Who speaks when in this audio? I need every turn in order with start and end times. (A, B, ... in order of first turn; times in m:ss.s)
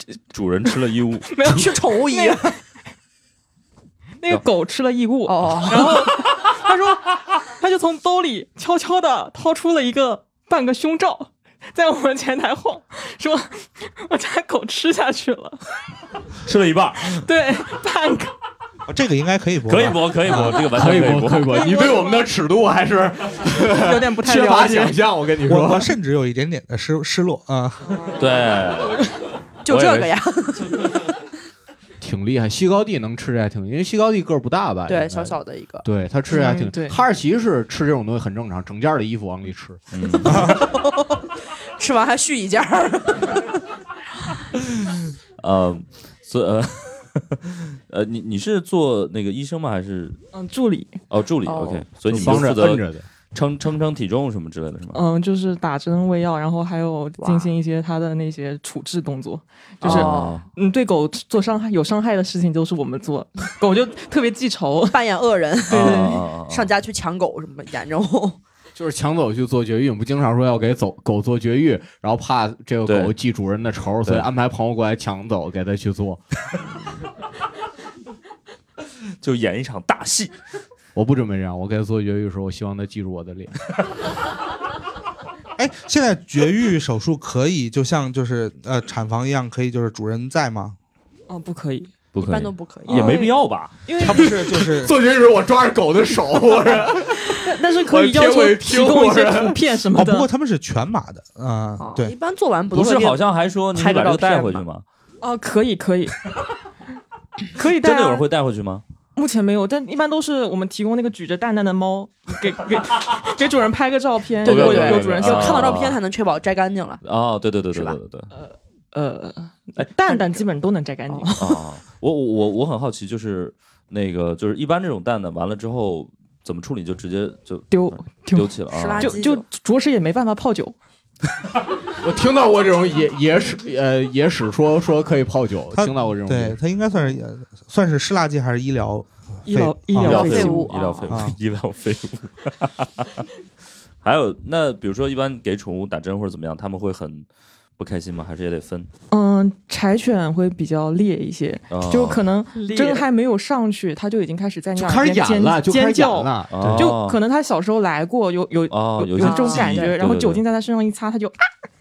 0:00.3-0:01.3 A
0:01.2-0:02.5 B
0:01.4-0:02.6 C
0:04.2-0:15.6 B
0:05.2-0:06.2 C
0:16.4-0:17.2 A
0:17.0-0:18.3 B
0:18.9-0:20.5 D
0:19.7-0:21.6 A
0:20.3-0:25.9 E
0:21.4-0:22.3 B
0:23.5-0:25.0 B
0:25.5-0:28.0 D
0:28.2-0:29.0 A
0:29.6-0:31.0 C
0:29.7-0:30.1 A
0:32.0-0:39.8 E
0:34.9-0:35.8 C
0:36.3-0:37.0 B
0:39.9-0:40.6 A
0:40.2-0:41.2 C
0:40.2-0:40.6 D
0:41.8-0:43.5 C
0:45.4-0:50.2 A
0:50.3-0:51.0 B
0:51.1-0:55.0 A
0:51.4-0:51.9 C
0:52.0-0:53.0 E
0:54.9-1:05.0 B
0:57.2-0:57.5 C
0:59.8-1:00.4 A
0:59.8-1:00.4 C
1:04.9-1:08.4 C
1:05.7-1:06.7 A
1:05.7-1:06.2 B
1:08.7-1:16.2 E
1:12.8-1:13.1 A
1:19.2-1:20.3 A
1:20.9-1:23.5 E
1:25.6-1:30.8 D
1:31.3-1:31.9 B
1:32.1-1:33.7 A
1:32.2-1:33.2 C
1:32.9-1:34.5 B
1:34.0-1:34.9 D
1:34.1-1:39.6 E
1:37.3-1:40.3 B
1:39.9-1:42.1 D
1:41.8-1:43.2 C
1:42.7-1:44.8 A
1:43.7-1:44.6 C
1:45.2-1:46.3 B
1:47.5-1:48.2 B
1:47.6-1:48.8 A
1:49.2-1:55.8 B
1:54.4-1:57.0 C
1:54.4-1:56.0 A
1:57.0-1:58.3 A
1:57.7-1:58.0 C
1:58.3-2:01.6 B
2:00.1-2:00.3 C
2:01.4-2:09.2 A
2:07.7-2:10.8 B
2:08.7-2:09.4 C
2:12.0-2:16.6 E
2:15.7-2:20.3 D
2:19.4-2:20.9 B
2:20.0-2:23.2 A
2:20.1-2:21.1 C
2:21.1-2:21.4 D
2:24.0-2:27.3 A
2:27.8-2:28.9 A
2:29.1-2:41.3 B
2:31.7-2:32.2 A
2:32.5-2:33.0 C
2:34.8-2:36.9 E
2:36.5-2:37.2 A
2:38.7-2:40.4 A
2:39.2-2:40.0 C